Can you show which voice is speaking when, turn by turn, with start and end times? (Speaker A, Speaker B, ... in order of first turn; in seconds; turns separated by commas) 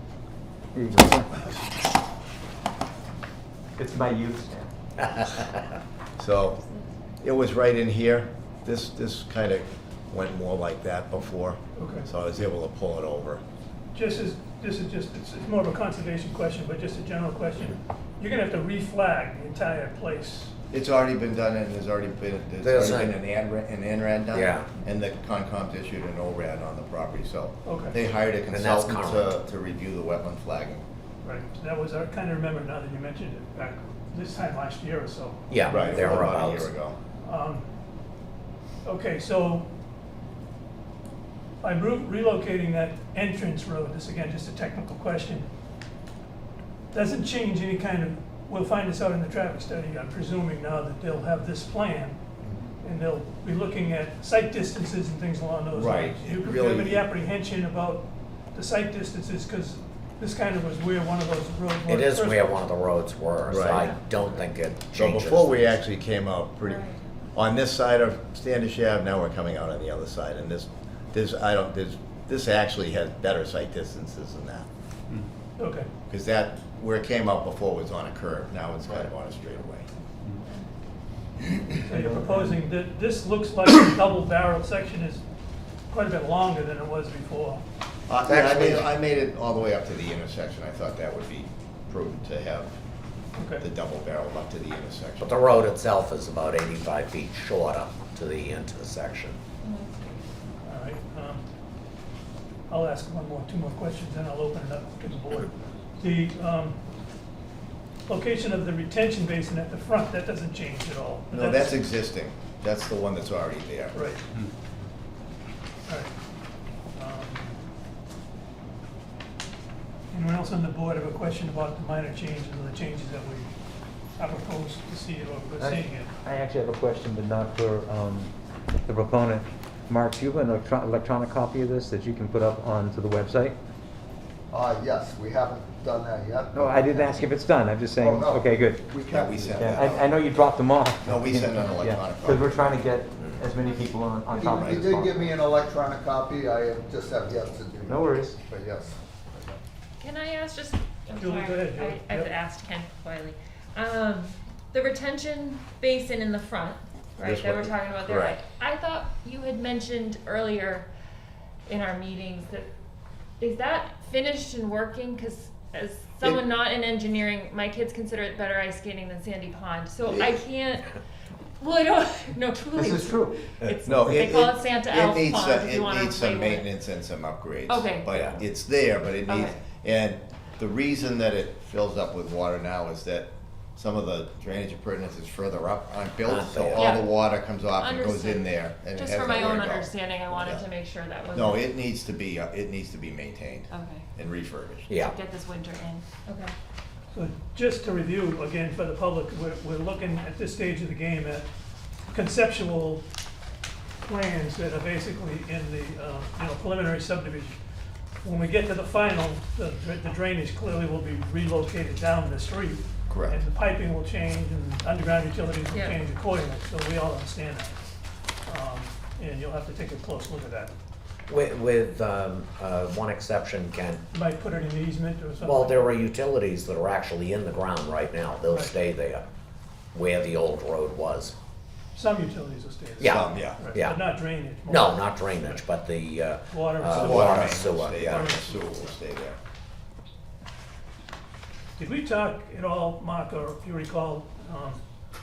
Speaker A: 0.7-1.3, Speaker A: 3.8-4.7, Speaker B: 6.2-6.6, Speaker C: 6.7-6.9, Speaker B: 7.2-13.4, Speaker D: 11.8-12.1, Speaker D: 13.9-20.5, Speaker B: 20.7-30.8, Speaker E: 22.6-23.1, Speaker E: 24.3-24.7, Speaker D: 27.6-28.0, Speaker E: 28.5-29.3, Speaker D: 31.2-36.6, Speaker E: 35.5-36.7, Speaker B: 35.7-37.0, Speaker D: 37.2-37.6, Speaker D: 38.8-39.6, Speaker D: 41.6-45.5, Speaker D: 46.9-52.2, Speaker D: 52.8-62.6, Speaker B: 55.7-57.0, Speaker E: 61.9-65.8, Speaker B: 63.5-63.9, Speaker C: 63.7-64.0, Speaker B: 64.9-66.8, Speaker C: 66.6-67.0, Speaker B: 67.3-74.7, Speaker D: 75.6-75.9, Speaker B: 76.1-79.9, Speaker D: 81.8-85.2, Speaker A: 81.9-82.6, Speaker D: 85.9-87.6, Speaker B: 88.1-92.8, Speaker E: 88.3-88.8, Speaker D: 93.3-93.7, Speaker B: 93.6-95.7, Speaker E: 95.2-99.4, Speaker C: 99.6-100.2, Speaker D: 100.6-101.4, Speaker D: 102.7-106.8, Speaker D: 108.1-111.8, Speaker B: 111.3-114.0, Speaker D: 113.9-114.2, Speaker D: 115.8-116.1, Speaker D: 116.9-117.6, Speaker D: 120.1-123.5, Speaker D: 124.2-126.1, Speaker A: 125.6-128.3, Speaker A: 128.8-133.6, Speaker F: 134.5-137.2, Speaker A: 136.5-138.9, Speaker F: 138.0-140.0, Speaker B: 139.1-140.0, Speaker A: 139.5-145.3, Speaker B: 141.0-143.4, Speaker C: 143.6-143.9, Speaker F: 144.3-149.6, Speaker A: 147.9-148.4, Speaker C: 150.0-160.9, Speaker D: 151.1-152.3, Speaker B: 157.2-158.4, Speaker C: 161.7-162.7, Speaker C: 163.4-171.0, Speaker B: 170.1-170.4, Speaker C: 171.6-176.7, Speaker A: 172.8-173.5, Speaker B: 173.8-190.7, Speaker C: 177.7-178.4, Speaker C: 179.2-179.5, Speaker E: 186.2-187.1, Speaker C: 186.8-187.1, Speaker C: 187.7-191.7, Speaker B: 191.3-194.9, Speaker C: 193.7-194.1, Speaker E: 194.9-195.2, Speaker C: 195.0-196.5, Speaker D: 197.1-201.5, Speaker D: 202.1-203.0, Speaker D: 204.0-207.6, Speaker D: 208.2-217.8, Speaker B: 213.1-213.4, Speaker C: 215.7-216.0, Speaker D: 218.5-220.7, Speaker E: 221.3-224.0, Speaker D: 224.1-225.9, Speaker E: 225.4-229.2, Speaker D: 228.5-228.8, Speaker E: 229.9-231.3, Speaker D: 231.9-235.1, Speaker E: 233.0-234.0, Speaker B: 233.0-233.6, Speaker E: 234.7-238.3, Speaker D: 236.5-238.9, Speaker B: 236.9-239.4, Speaker D: 241.8-244.8